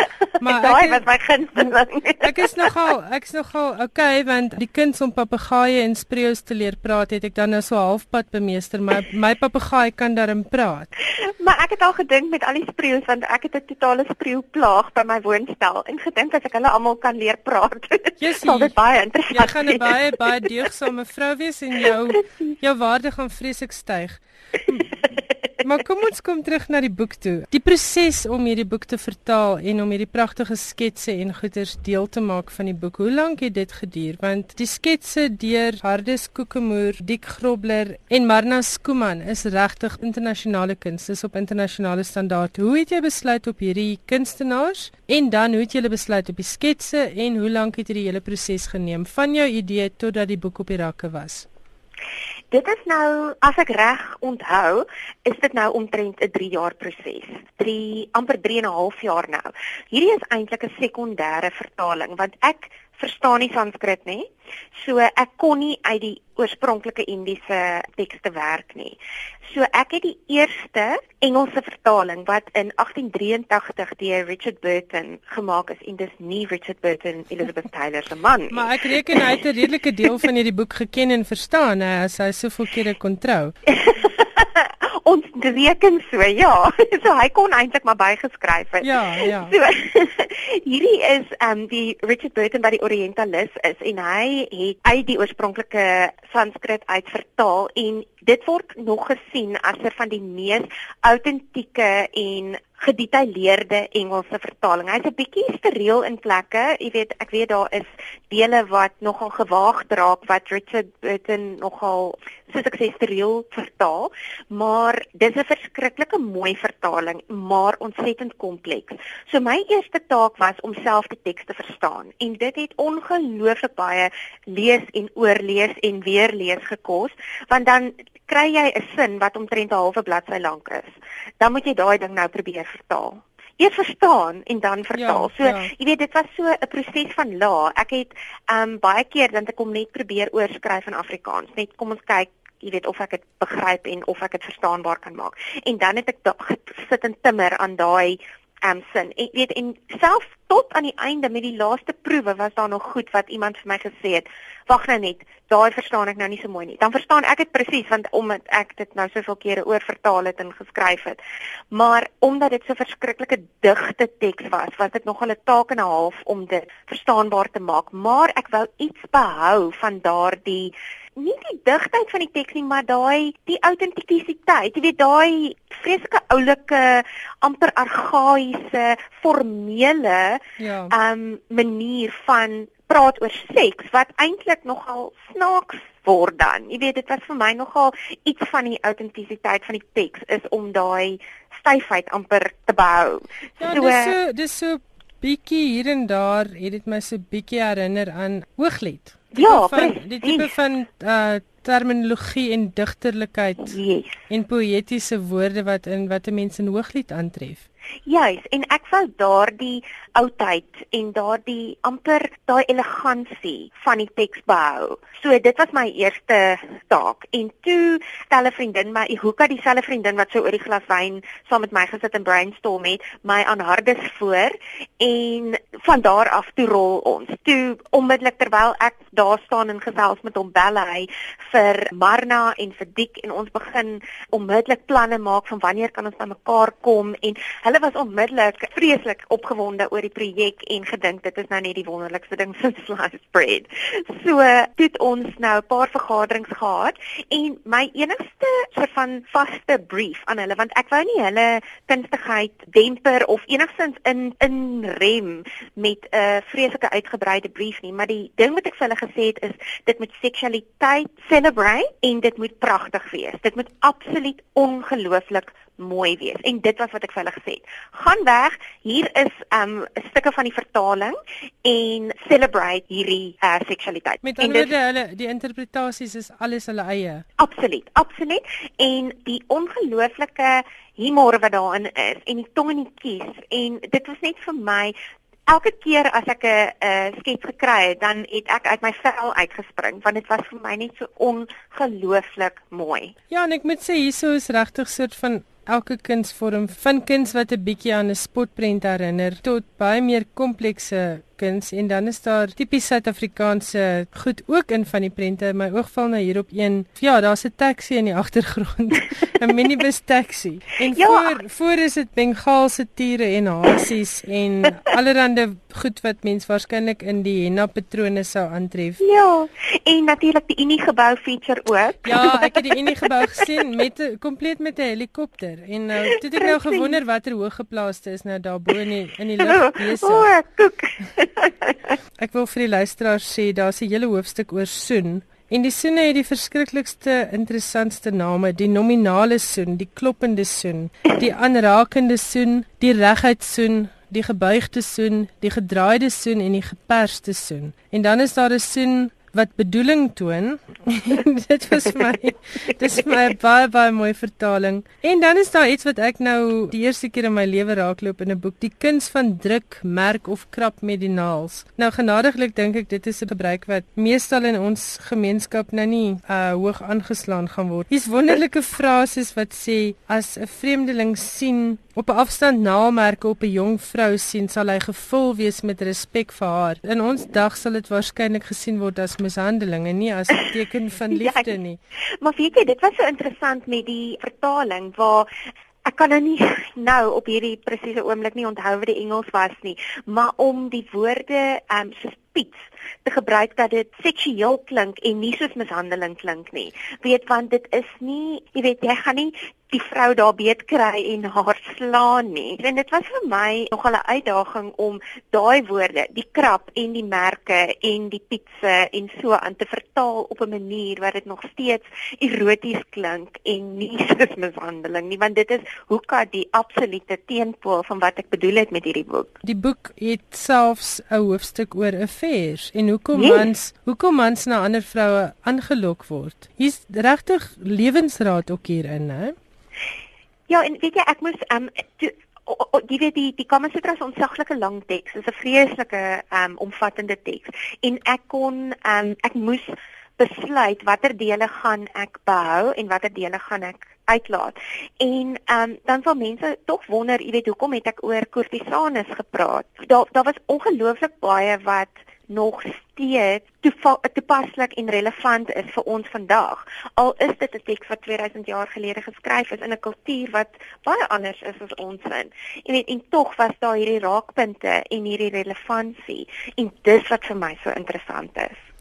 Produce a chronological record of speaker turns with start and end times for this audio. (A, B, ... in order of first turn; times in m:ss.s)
0:00.4-0:01.0 A
0:00.4-0:02.5 B
0:02.2-0:10.9 A
0:11.2-0:20.1 B
0:18.2-0:18.7 A
0:19.3-0:24.9 A
0:25.6-0:51.4 A
0:52.5-1:04.2 B
1:04.8-1:19.2 B
1:18.5-1:23.5 A
1:23.7-2:41.2 B
1:28.8-1:29.5 A
2:14.9-2:15.7 A
2:41.7-3:14.1 B
3:00.6-3:00.9 A
3:13.6-3:23.8 A
3:19.3-3:20.5 B
3:23.6-3:24.2 B
3:24.3-3:27.6 A
3:28.1-4:34.7 B
4:34.2-4:37.2 A
4:37.4-4:44.9 B
4:45.5-4:53.1 B
4:53.3-5:19.0 A
5:10.9-5:11.4 B
5:19.0-5:22.6 B
5:22.0-5:30.3 A
5:26.3-5:27.0 B
5:29.4-5:31.7 B
5:32.2-6:21.8 A
6:21.1-6:21.5 B
6:22.2-6:25.3 B
6:25.8-6:59.3 B
6:59.4-7:09.3 A
7:03.1-7:03.5 B
7:10.5-7:48.6 B